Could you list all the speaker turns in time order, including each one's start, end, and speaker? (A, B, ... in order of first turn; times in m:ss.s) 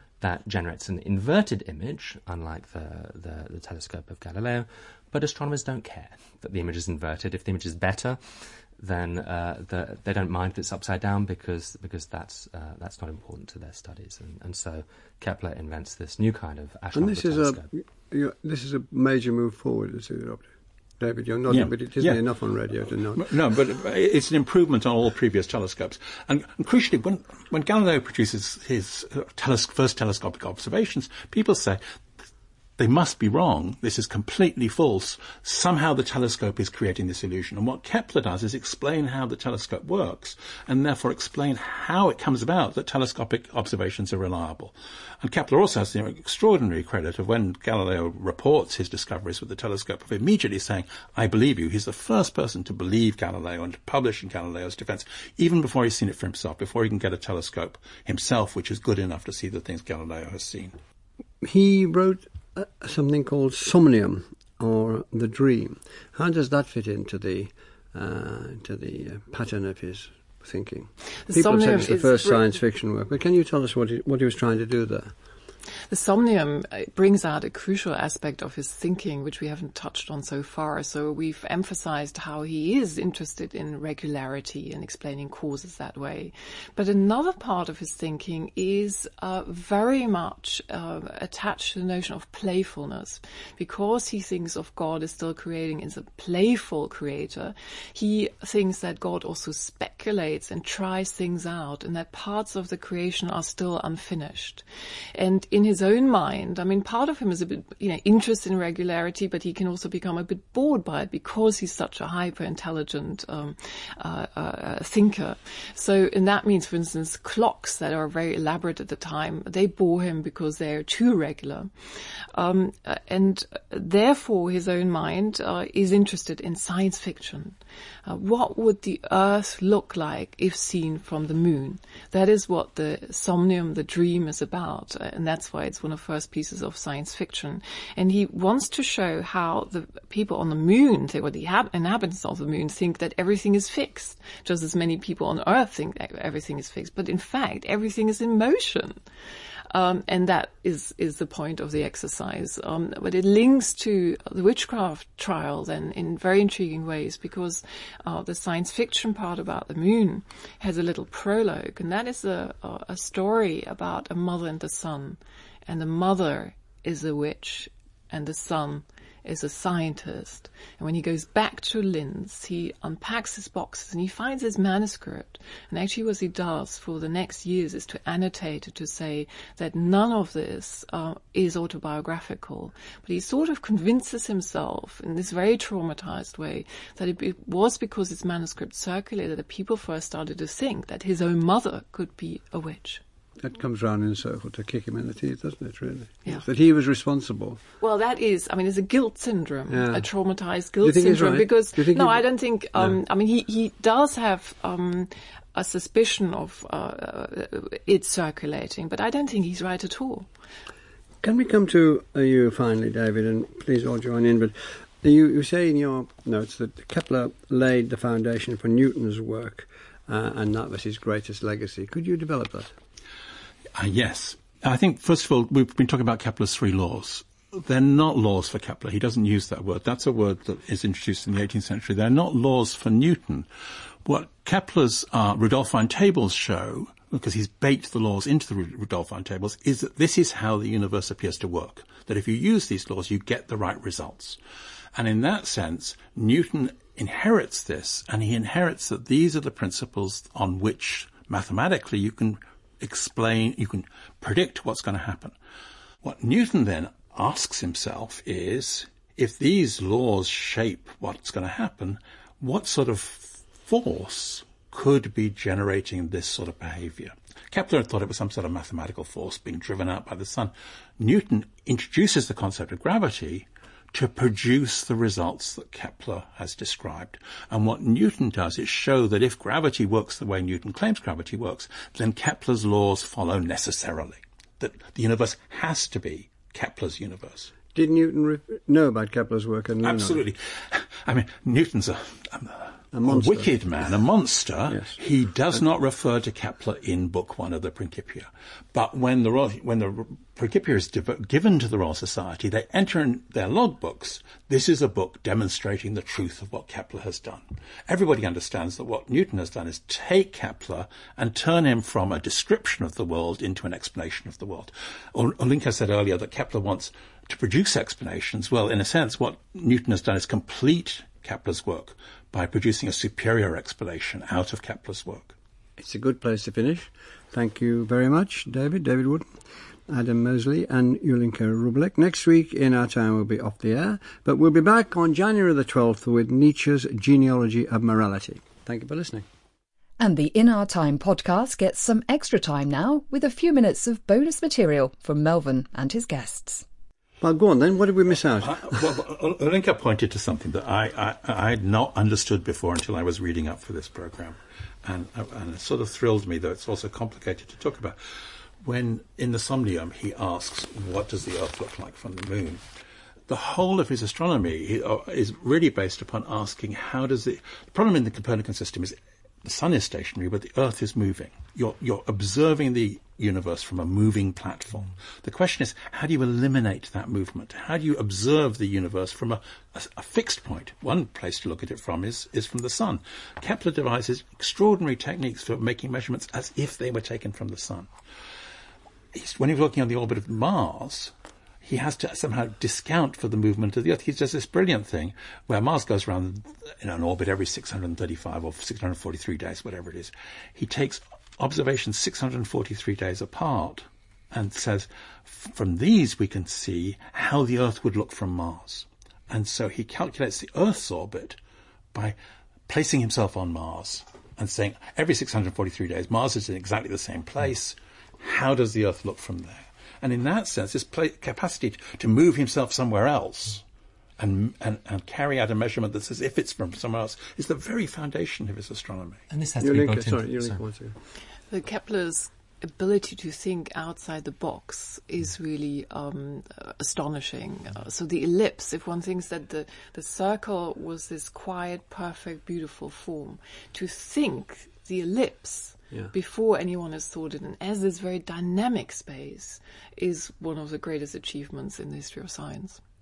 0:00.2-0:17.7 A
0:16.9-0:20.5 B
0:21.0-0:23.2 B
0:21.5-0:22.2 C
0:23.1-0:31.8 C
0:32.8-1:00.8 C
1:01.4-1:15.1 B
1:11.3-1:12.4 D
1:15.9-1:44.6 D
1:45.1-2:01.7 D
2:02.3-2:29.0 D
2:29.7-3:13.0 D
3:13.4-3:17.6 B
3:17.8-3:30.3 D
3:19.7-3:20.0 B
3:20.8-3:22.2 B
3:31.2-3:42.7 B
3:43.8-3:53.5 C
3:54.0-4:04.4 C
4:04.9-4:15.3 C
4:16.0-4:47.5 C
4:47.7-4:50.2 B
4:49.8-5:25.3 C
4:52.9-4:53.5 B
4:54.7-4:55.0 B
5:25.8-5:29.3 B
5:29.9-5:39.2 B
5:40.0-5:46.6 E
5:47.2-5:48.8 B
5:48.4-5:58.0 C
5:58.6-6:02.6 C
6:03.3-6:27.9 C
6:29.1-6:31.1 C
6:31.6-6:51.4 C
6:52.7-7:03.6 C
7:04.2-7:09.2 C
7:09.3-7:10.6 A
7:09.6-7:11.0 B
7:11.5-7:32.8 D